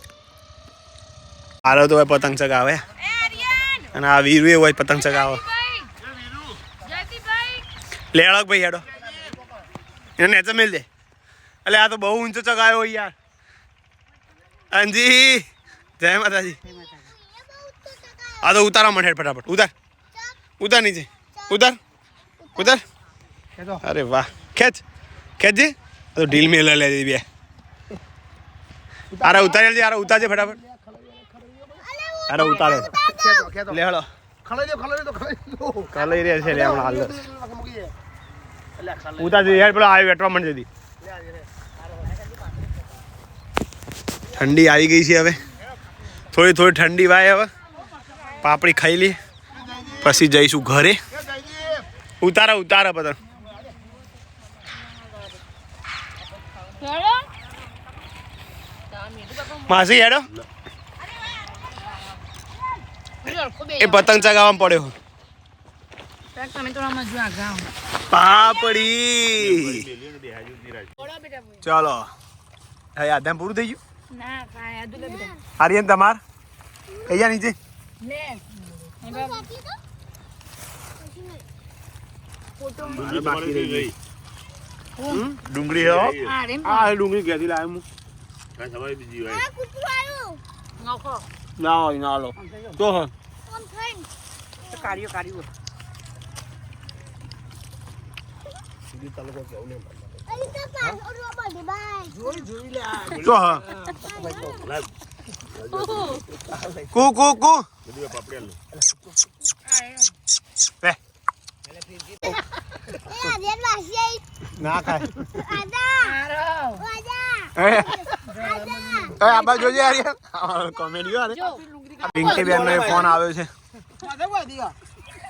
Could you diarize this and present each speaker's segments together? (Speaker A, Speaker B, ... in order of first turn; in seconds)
Speaker A: 1.6-2.8, 3.9-5.4, 8.1-8.9, 10.2-10.9, 11.7-13.1, 14.7-15.5, 16.0-16.6, 18.4-19.7, 20.6-21.8, 22.6-22.8, 23.8-24.8, 25.4-27.2, 29.2-30.6, 32.3-32.9, 33.7-34.1, 35.9-37.2, 39.2-40.7, 44.3-45.4, 46.3-47.5, 48.4-49.2, 50.0-51.0, 52.2-53.2, 59.6-60.3, 63.8-64.9, 68.1-69.9, 71.6-72.1, 73.0-73.8, 75.6-76.2, 77.0-77.6, 82.9-83.9, 85.1-86.1, 86.6-87.8, 91.6-93.1, 103.1-103.7, 106.9-107.7, 114.6-115.2, 117.6-118.2, 119.2-121.4, 122.1-123.5
Speaker B: 3.0-3.9, 4.9-5.9, 6.8-7.7, 56.8-57.3, 63.2-64.0, 66.3-67.7, 74.1-75.4, 78.0-78.4, 79.0-79.5, 82.7-83.0, 86.2-86.9, 90.8-91.2, 105.7-106.2, 116.0-116.9, 121.3-121.6
Speaker C: 16.7-17.0, 23.6-23.8, 29.1-29.5, 30.9-31.8, 32.4-33.8, 34.5-37.9, 92.5-92.8, 94.7-95.5, 102.2-103.2, 103.8-104.6, 118.2-119.2, 121.4-123.1, 124.0-124.8
Speaker D: 16.9-18.6, 21.3-21.6, 22.4-22.8, 31.8-33.5, 68.4-68.8, 75.0-75.4, 79.0-79.8, 81.0-81.4, 89.3-90.4, 93.5-94.1, 94.7-95.0, 100.3-102.4, 104.0-104.6, 113.0-114.2, 115.3-116.2, 116.8-120.0
Speaker E: 69.4-70.9, 83.0-83.9, 85.5-86.3, 88.6-89.4, 105.7-106.1, 107.9-108.6